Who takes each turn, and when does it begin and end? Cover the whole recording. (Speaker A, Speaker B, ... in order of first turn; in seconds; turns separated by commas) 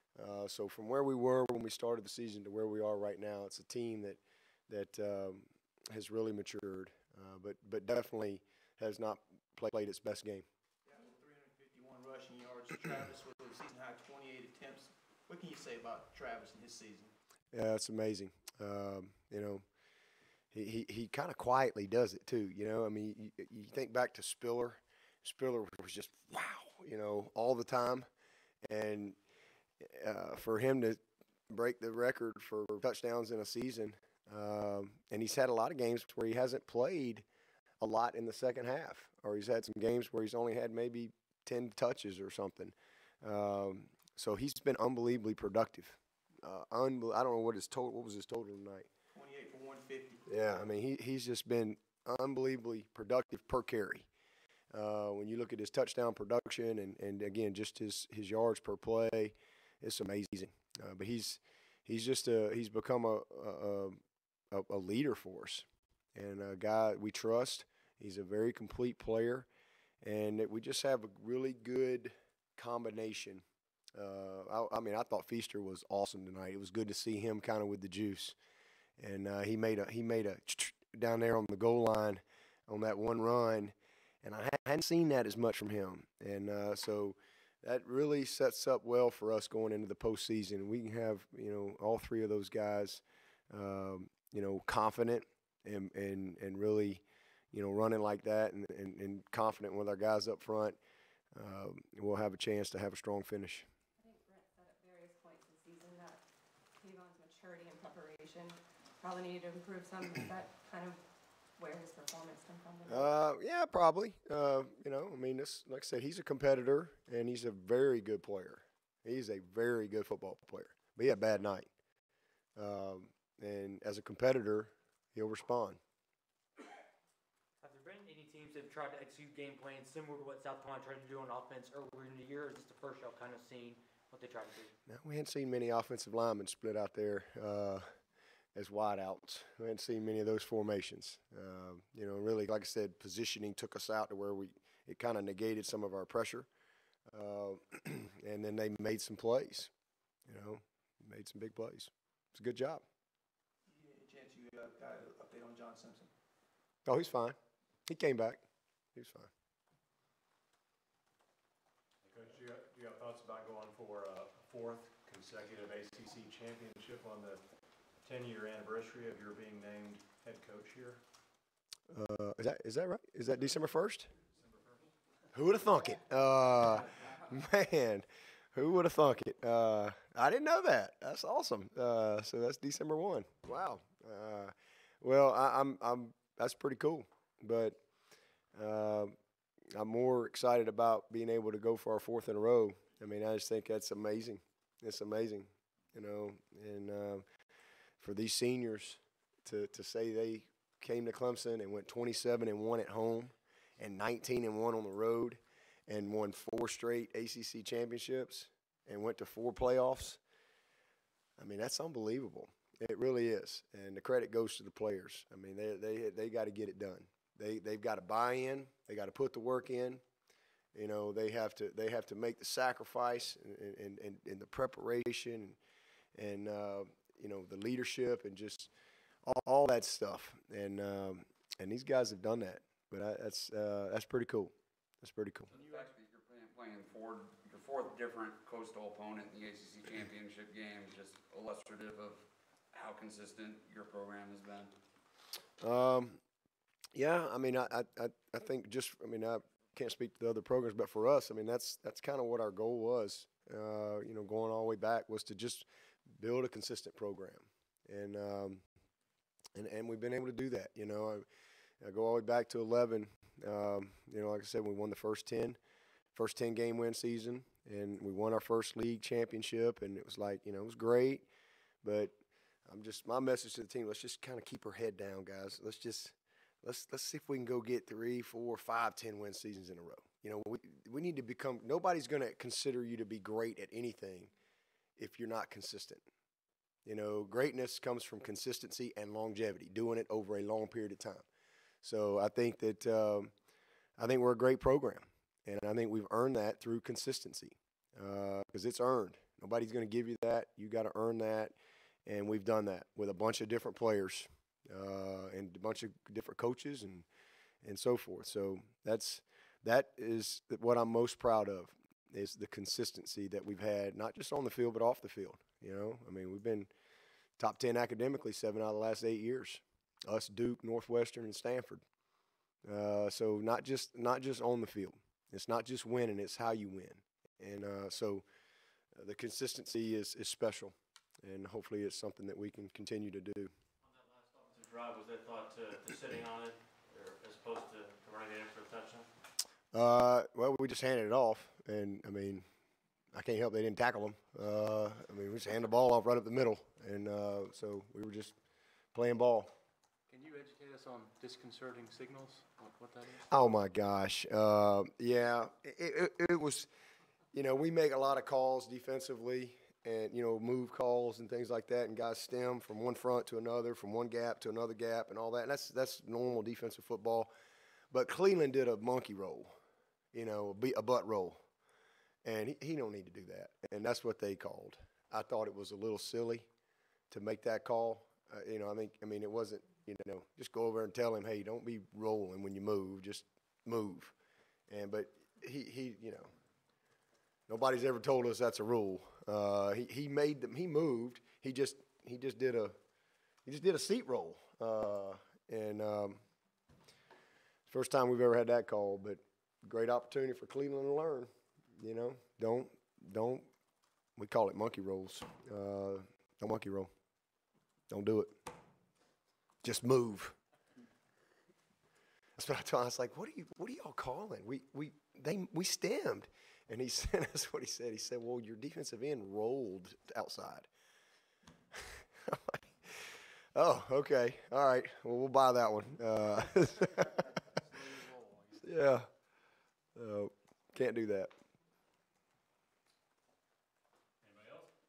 Speaker A: 0.2-10.5, Speaker B: 10.9-17.1, Speaker A: 17.5-19.6, Speaker A: 20.5-28.1, Speaker A: 28.7-29.2, Speaker A: 29.8-37.3, Speaker A: 37.8-48.9, Speaker B: 49.1-50.2, Speaker A: 50.3-54.1, Speaker A: 54.7-64.0, Speaker A: 64.5-69.5, Speaker A: 70.0-73.4, Speaker A: 74.0-78.4, Speaker A: 79.0-100.8, Speaker A: 101.3-103.7, Speaker C: 104.0-106.2, Speaker C: 106.8-111.0, Speaker C: 111.6-113.2, Speaker A: 112.9-121.7, Speaker A: 122.6-125.8, Speaker D: 127.6-134.7, Speaker A: 134.9-137.9, Speaker A: 138.6-146.5, Speaker A: 147.1-149.7, Speaker A: 150.3-152.8, Speaker B: 153.7-156.1, Speaker A: 156.9-157.4, Speaker A: 157.9-158.4, Speaker A: 158.9-159.3, Speaker E: 162.0-167.4, Speaker E: 168.0-171.0, Speaker A: 171.9-174.1, Speaker A: 175.3-187.8, Speaker A: 188.6-189.1, Speaker A: 189.8-197.2, Speaker A: 198.0-210.2, Speaker A: 211.4-220.0, Speaker A: 220.7-225.6, Speaker A: 226.2-228.7, Speaker A: 229.2-235.5, Speaker F: 235.5-244.7, Speaker A: 245.6-246.2, Speaker A: 246.9-258.6, Speaker A: 259.6-261.2, Speaker A: 261.8-265.6, Speaker A: 266.1-271.3, Speaker A: 271.8-272.1, Speaker A: 272.7-284.3, Speaker A: 285.0-286.1, Speaker A: 286.9-291.2, Speaker A: 291.8-293.3, Speaker A: 294.0-301.6, Speaker A: 302.1-307.1, Speaker A: 307.6-316.7, Speaker A: 317.4-321.8, Speaker A: 322.6-328.2, Speaker A: 328.9-333.5, Speaker G: 333.9-339.1, Speaker A: 339.7-342.4, Speaker A: 343.1-348.3, Speaker A: 348.9-349.5, Speaker H: 350.1-353.2, Speaker A: 353.3-356.7, Speaker A: 357.3-367.3, Speaker A: 367.9-369.5, Speaker A: 370.1-371.4, Speaker A: 372.2-376.5, Speaker A: 377.1-384.1, Speaker A: 384.7-386.3, Speaker A: 387.5-392.8, Speaker A: 393.4-396.2, Speaker A: 397.7-403.5, Speaker A: 404.2-406.9, Speaker A: 407.9-408.3, Speaker A: 409.6-410.4, Speaker A: 412.4-420.7, Speaker A: 421.8-427.4, Speaker H: 427.9-428.5, Speaker A: 428.6-429.1, Speaker A: 430.0-431.3, Speaker E: 434.2-434.7